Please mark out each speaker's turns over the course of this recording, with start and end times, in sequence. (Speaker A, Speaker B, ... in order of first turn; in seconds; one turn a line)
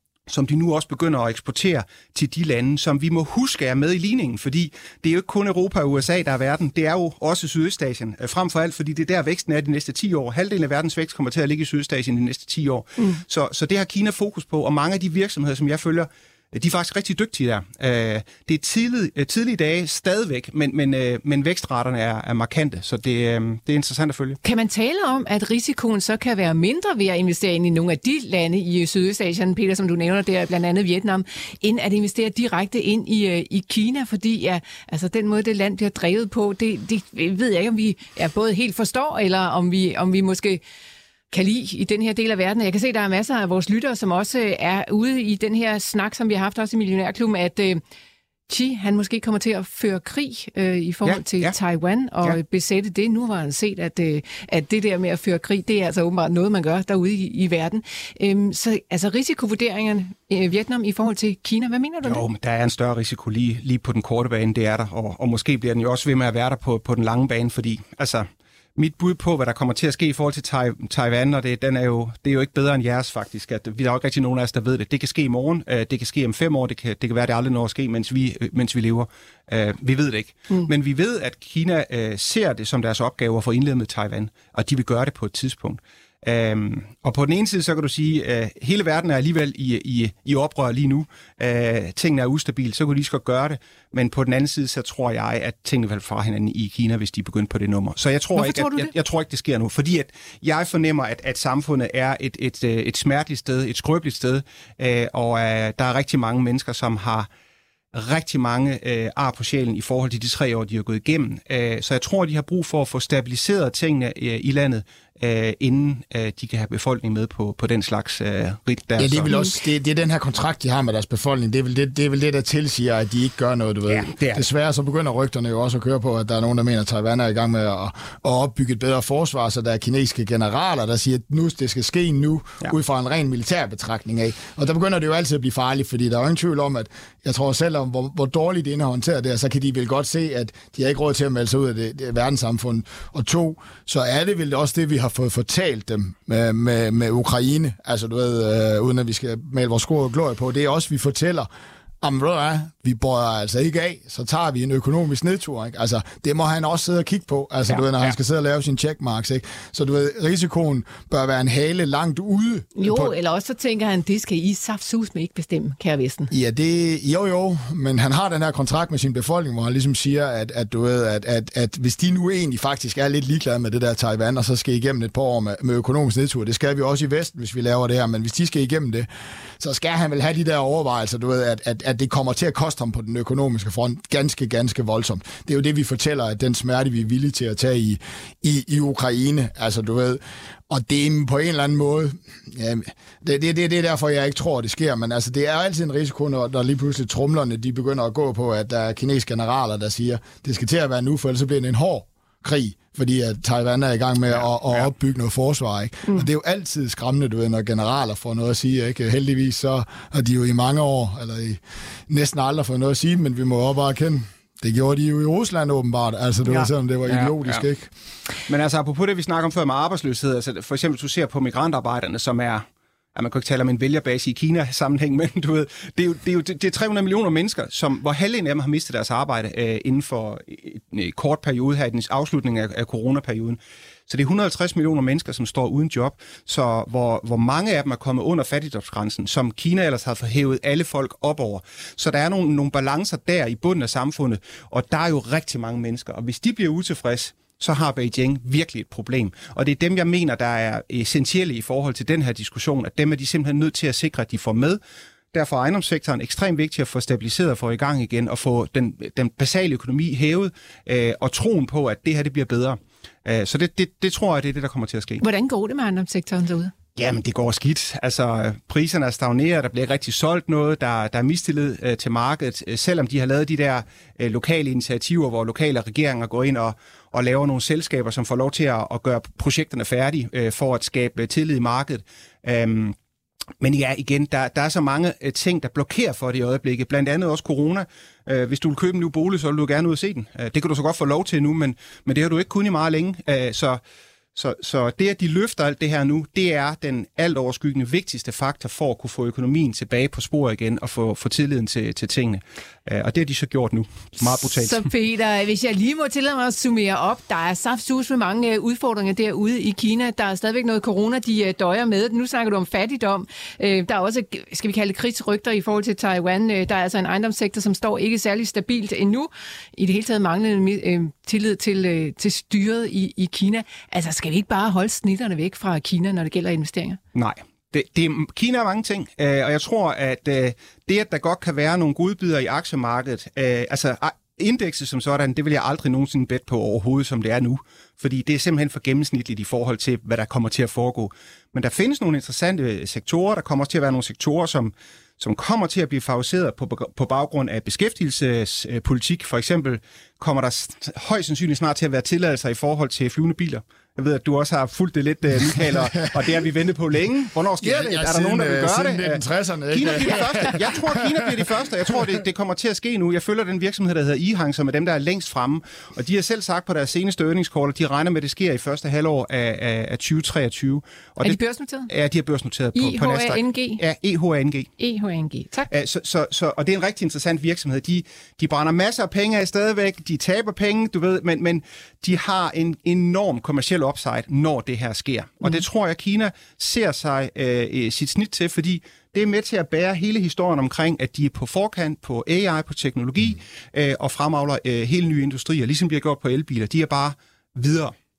Speaker A: 0.3-24.4
Speaker B: 24.4-40.6
Speaker B: 41.3-47.8
Speaker B: 48.5-62.2
Speaker A: 51.0-51.5
Speaker A: 62.0-107.3
Speaker B: 98.3-98.9
Speaker A: 107.9-119.3
Speaker C: 119.0-151.5
Speaker A: 123.9-124.5
Speaker C: 152.0-163.1
Speaker A: 157.8-158.1
Speaker B: 162.8-166.3
Speaker C: 166.3-179.1
Speaker C: 179.6-217.9
Speaker A: 204.3-204.9
Speaker A: 217.1-217.6
Speaker A: 218.5-222.6
Speaker A: 223.2-254.8
Speaker A: 255.3-265.2
Speaker B: 265.2-266.7
Speaker A: 267.0-283.0
Speaker A: 283.6-293.8
Speaker A: 294.4-304.9
Speaker B: 304.3-327.0
Speaker A: 327.1-374.7
Speaker C: 357.6-361.4
Speaker B: 371.2-371.9
Speaker B: 372.8-373.8
Speaker B: 374.8-375.7
Speaker A: 375.7-397.9